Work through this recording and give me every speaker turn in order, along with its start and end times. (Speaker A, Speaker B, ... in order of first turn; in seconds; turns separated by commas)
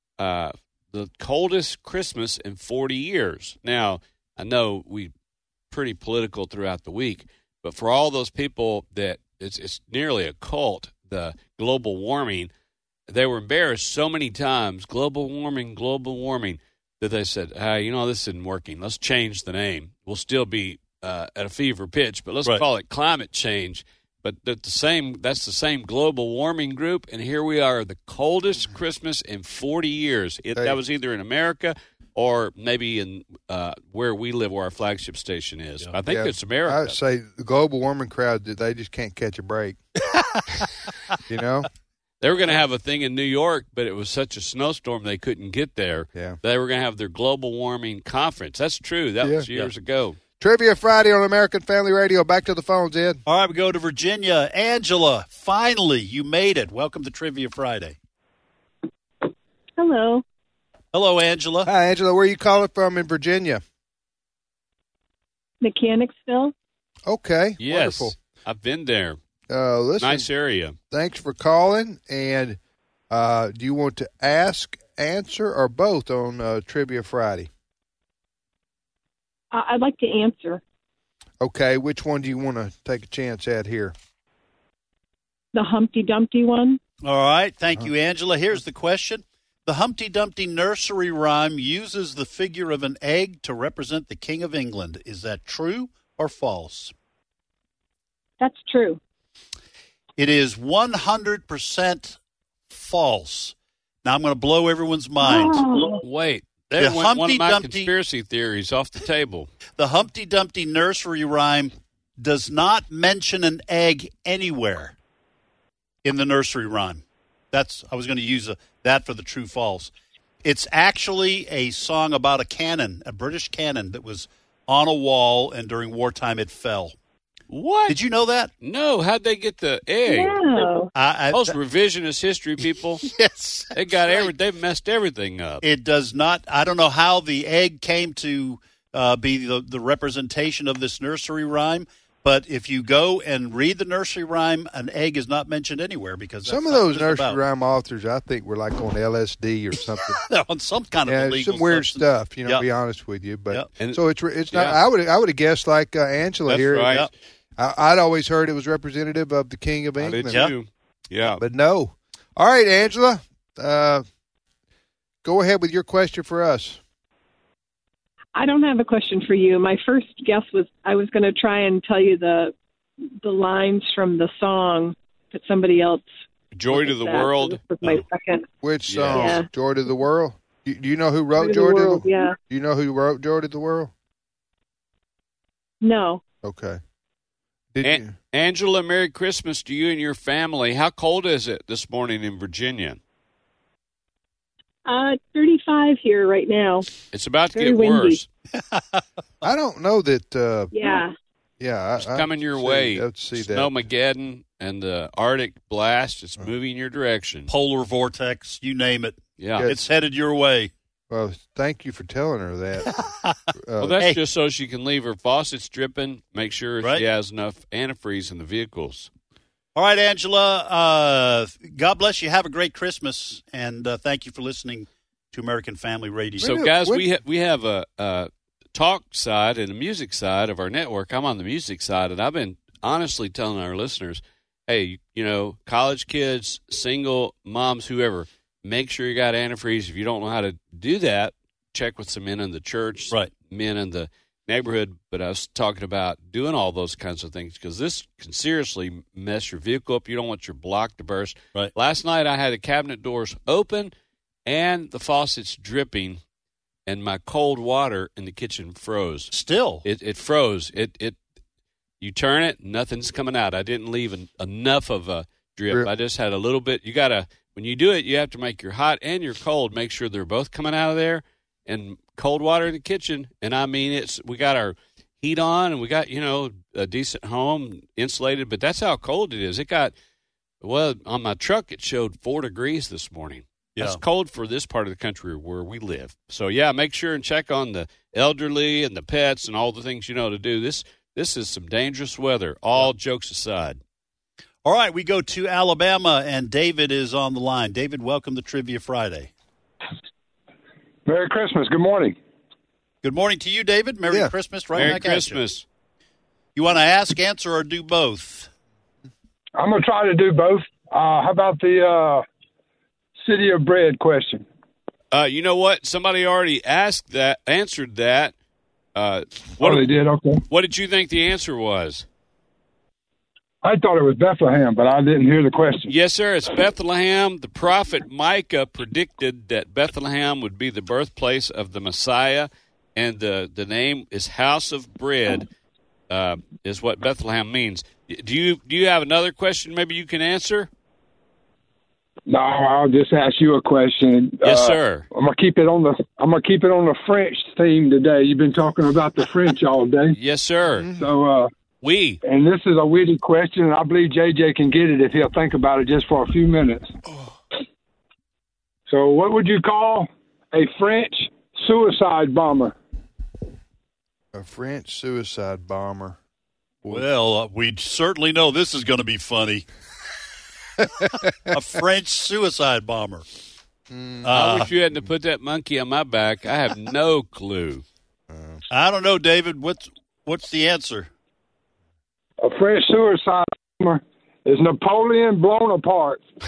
Speaker A: 0.2-5.1, Speaker A: 5.7-12.5, Speaker A: 13.1-37.0, Speaker B: 36.1-39.8, Speaker C: 40.1-40.6, Speaker B: 41.3-41.7, Speaker A: 42.2-50.2, Speaker B: 49.2-49.5, Speaker B: 50.4-53.2, Speaker C: 53.3-58.0, Speaker D: 59.8-60.2, Speaker C: 60.9-61.7, Speaker B: 61.6-63.6, Speaker D: 65.6-66.5, Speaker B: 67.0-68.1, Speaker A: 67.6-69.2, Speaker B: 69.5-70.3, Speaker A: 70.0-70.7, Speaker B: 70.9-72.6, Speaker B: 73.1-77.5, Speaker D: 79.5-80.6, Speaker B: 81.4-83.9, Speaker D: 85.5-86.8, Speaker C: 87.0-96.9, Speaker D: 98.4-99.0, Speaker C: 100.2-102.2, Speaker C: 102.7-105.6, Speaker D: 105.2-106.0, Speaker A: 106.0-109.5, Speaker C: 106.8-107.9, Speaker C: 109.8-114.9, Speaker C: 116.0-119.9, Speaker C: 120.4-126.9, Speaker A: 127.5-128.0, Speaker C: 127.9-128.5, Speaker A: 128.6-130.4, Speaker D: 130.1-130.9, Speaker C: 130.9-131.6, Speaker A: 131.3-133.1, Speaker C: 133.0-134.3, Speaker A: 133.7-135.6, Speaker C: 135.6-147.4, Speaker B: 146.4-150.2, Speaker C: 150.3-152.6, Speaker B: 151.1-160.4, Speaker A: 154.5-154.8, Speaker A: 156.5-157.1, Speaker C: 156.8-157.1, Speaker A: 160.0-161.4, Speaker C: 160.3-160.5, Speaker B: 161.3-164.0, Speaker B: 165.2-166.8, Speaker D: 168.3-172.5, Speaker D: 173.2-176.0, Speaker A: 176.5-178.0, Speaker D: 176.7-178.5, Speaker B: 178.6-183.9, Speaker A: 178.9-179.4, Speaker D: 179.1-179.5, Speaker D: 181.4-182.4, Speaker D: 185.8-186.2, Speaker B: 186.4-186.8, Speaker B: 187.7-188.1, Speaker A: 187.8-193.0, Speaker D: 194.8-196.9, Speaker A: 197.1-198.2, Speaker D: 197.5-198.2, Speaker C: 198.5-199.0, Speaker B: 199.4-200.7, Speaker D: 200.7-201.1, Speaker B: 201.6-203.7, Speaker A: 202.0-207.5, Speaker C: 207.5-210.7, Speaker A: 209.4-209.7, Speaker B: 211.1-212.9, Speaker C: 212.9-213.4, Speaker B: 213.6-214.0, Speaker A: 213.8-219.1, Speaker C: 216.8-217.1, Speaker C: 219.7-226.5, Speaker B: 226.4-227.0, Speaker A: 226.4-253.9, Speaker A: 254.4-256.2, Speaker A: 256.9-259.3, Speaker C: 259.3-259.8, Speaker A: 259.8-261.2, Speaker A: 262.0-279.9, Speaker A: 280.6-293.8, Speaker C: 294.6-299.3, Speaker E: 301.1-302.2, Speaker C: 303.0-305.4, Speaker A: 304.7-305.6, Speaker C: 306.5-308.5, Speaker E: 309.6-312.2, Speaker E: 313.2-314.4, Speaker A: 315.1-318.3, Speaker A: 318.9-319.9, Speaker E: 319.6-320.4, Speaker A: 320.5-322.1, Speaker E: 323.6-325.9, Speaker A: 325.9-335.5, Speaker A: 336.1-340.7, Speaker E: 342.3-350.2, Speaker A: 344.4-345.1, Speaker A: 350.2-350.9, Speaker E: 350.9-351.5, Speaker A: 351.8-352.2, Speaker E: 352.2-356.9, Speaker E: 358.9-362.7, Speaker B: 364.3-366.2, Speaker C: 366.9-369.6, Speaker C: 371.0-373.2, Speaker B: 373.9-374.3, Speaker C: 374.2-374.7, Speaker A: 374.3-377.8, Speaker B: 378.3-378.6, Speaker C: 378.7-381.1, Speaker E: 382.4-386.2